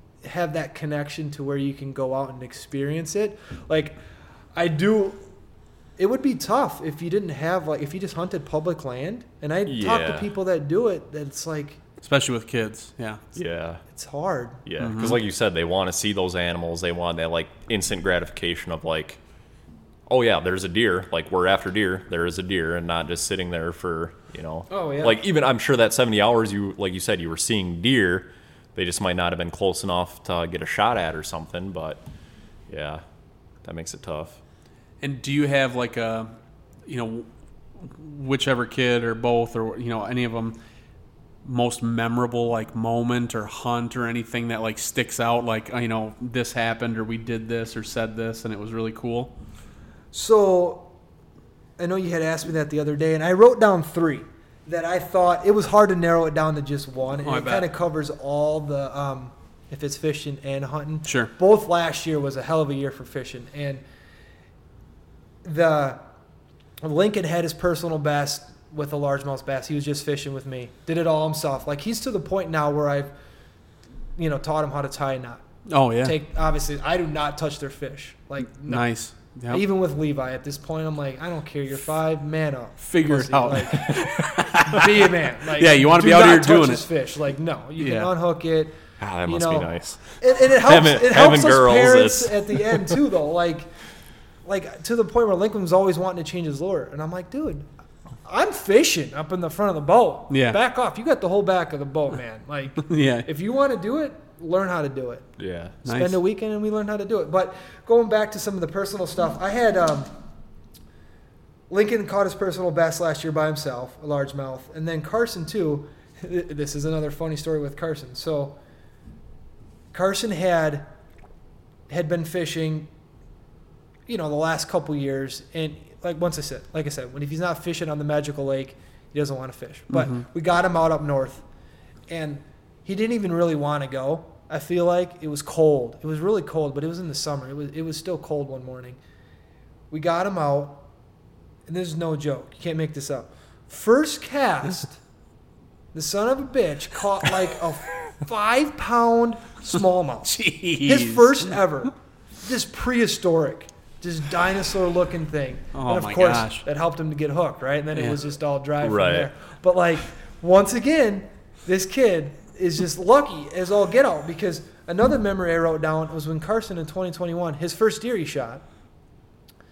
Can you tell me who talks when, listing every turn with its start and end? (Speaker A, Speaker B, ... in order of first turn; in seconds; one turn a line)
Speaker A: 0.2-4.0
Speaker A: 4.5-5.2
Speaker A: 6.0-11.8
Speaker B: 9.7-10.3
Speaker C: 12.0-13.2
Speaker B: 13.3-13.8
Speaker A: 13.9-14.6
Speaker B: 14.6-19.2
Speaker C: 14.8-15.2
Speaker B: 20.1-32.0
Speaker A: 24.7-25.2
Speaker B: 32.7-33.0
Speaker B: 33.6-34.4
Speaker C: 35.0-36.3
Speaker C: 36.9-40.6
Speaker C: 41.4-49.3
Speaker A: 50.1-50.9
Speaker A: 51.8-63.8
Speaker C: 57.2-57.7
Speaker C: 61.0-61.3
Speaker A: 65.4-66.0
Speaker A: 66.8-73.1
Speaker A: 74.2-75.4
Speaker C: 75.7-76.2
Speaker A: 76.0-78.9
Speaker C: 78.6-79.6
Speaker A: 79.5-93.7
Speaker C: 82.8-86.8
Speaker C: 87.8-88.1
Speaker B: 89.0-92.6
Speaker A: 94.4-97.7
Speaker A: 98.2-105.3
Speaker C: 100.3-100.6
Speaker C: 102.8-103.3
Speaker B: 105.4-105.8
Speaker A: 105.8-110.1
Speaker C: 105.8-106.2
Speaker A: 111.7-118.6
Speaker A: 119.9-120.9
Speaker A: 121.9-122.9
Speaker A: 124.1-131.4
Speaker C: 129.9-130.2
Speaker A: 132.1-139.0
Speaker A: 139.9-140.8
Speaker A: 141.7-145.0
Speaker A: 145.9-168.6
Speaker C: 150.2-151.6
Speaker C: 155.7-156.6
Speaker B: 158.8-159.3